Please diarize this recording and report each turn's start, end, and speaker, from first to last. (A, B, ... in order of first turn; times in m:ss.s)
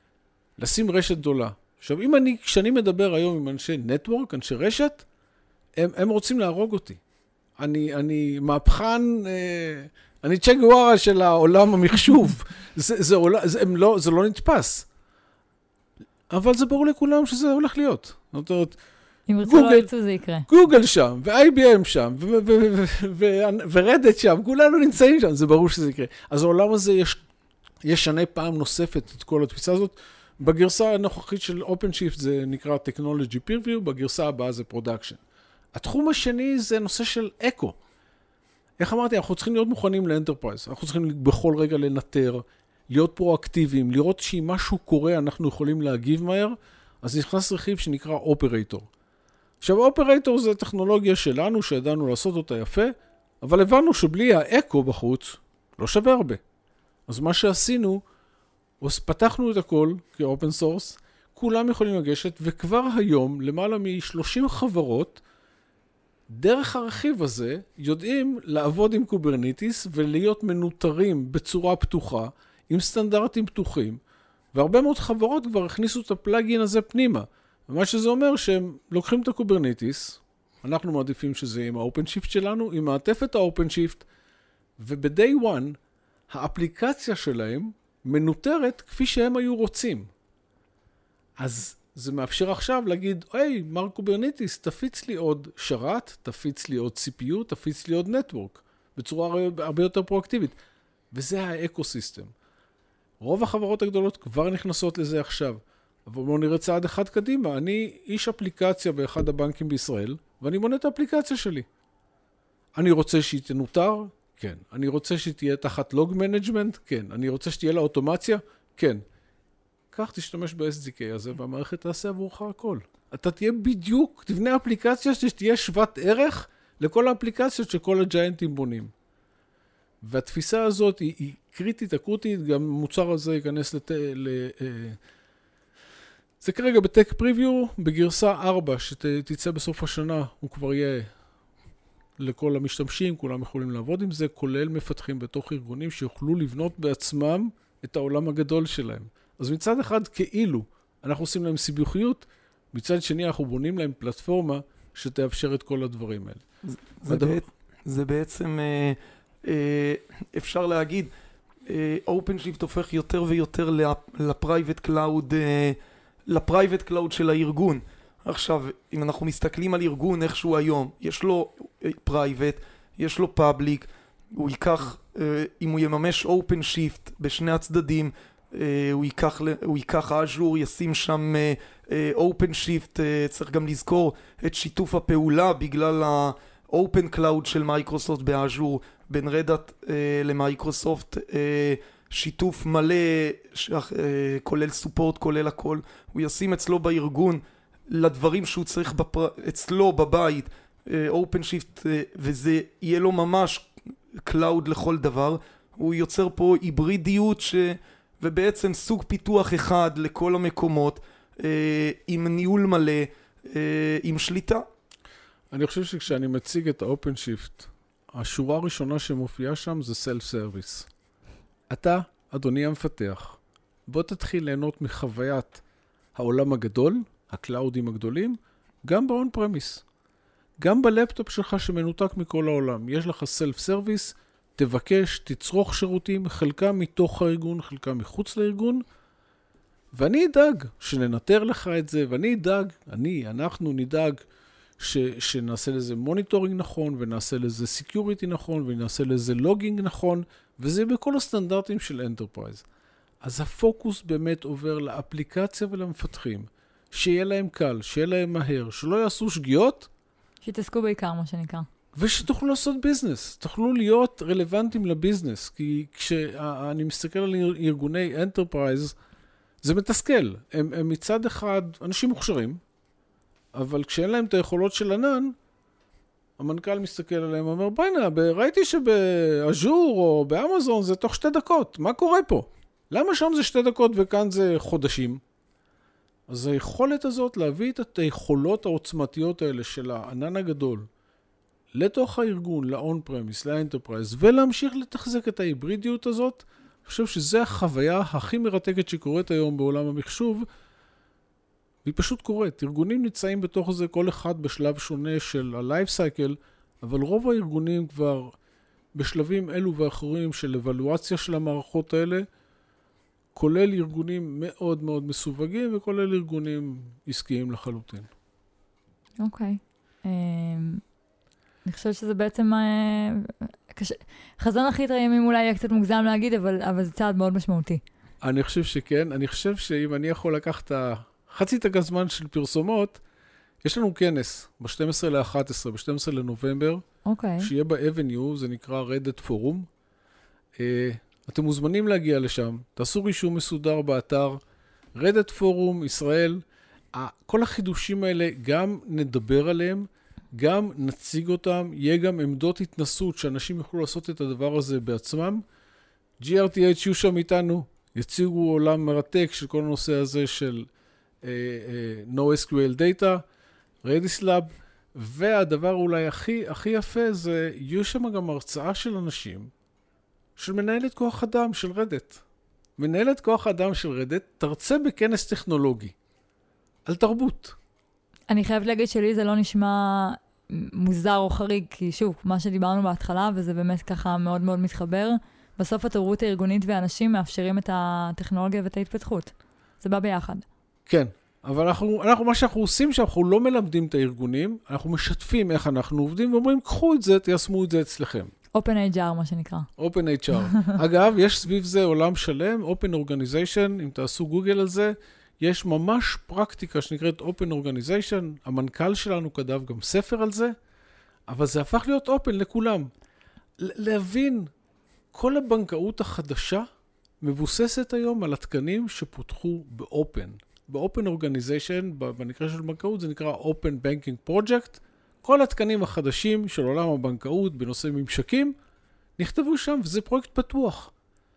0:00.6-0:05.0 A
0:05.8-0:07.0 A
0:07.6-0:14.9 A
0:16.3-0:18.8 A
0:19.3-0:20.5 B
0:19.4-0:19.9 A
0:20.5-0:27.2 A
0:27.8-0:35.2 A
0:35.7-0:37.8 A
0:38.8-0:48.9 A
0:49.6-0:56.4 A
0:57.1-0:58.0 A
0:58.8-1:05.2 A
1:06.3-1:14.0 A
1:14.5-1:24.0 A
1:24.8-1:25.8 A
1:26.3-1:30.1 A
1:31.4-1:40.6 A
1:41.1-1:42.3 A
1:43.2-1:51.7 A
1:52.7-1:59.0 A
1:59.9-2:08.9 A
2:10.0-2:15.0 A
2:16.4-2:21.1 A
2:22.2-2:36.4 A
2:36.7-2:41.1 C
2:37.1-2:37.4 A
2:41.6-3:23.7 C
3:24.2-3:34.6 C
3:35.5-3:40.9 A
3:41.7-3:45.6 A
3:46.1-3:49.8 A
3:50.6-3:58.8 A
3:59.9-4:04.2 A
4:04.8-4:12.6 A
4:13.2-4:19.9 A
4:20.4-4:21.6 B
4:21.9-4:29.0 A
4:29.6-4:32.6 A
4:33.5-4:35.3 A
4:36.4-4:45.2 A
4:46.3-4:50.9 A
4:51.7-5:00.5 A
5:01.8-5:08.3 A
5:08.9-5:12.3 A
5:13.3-5:18.1 A
5:19.2-5:20.8 B
5:21.6-5:27.8 B
5:28.2-5:33.0 A
5:33.6-5:36.8 A
5:37.0-5:37.5 B
5:37.4-5:39.7 A
5:40.6-5:44.4 A
5:45.0-5:55.4 A
5:56.2-6:00.7 A
6:01.2-6:03.2 A
6:03.8-6:09.5 A
6:10.4-6:12.2 A
6:12.8-6:15.9 A
6:16.8-6:17.6 A
6:18.3-6:30.4 B
6:30.9-6:38.3 A
6:38.5-6:39.7 B
6:39.8-6:50.5 A
6:40.4-6:40.8 B
6:51.3-6:52.9 A
6:53.6-6:54.5 A
6:55.1-6:56.7 A
6:57.2-7:08.5 A
7:09.2-7:10.9 A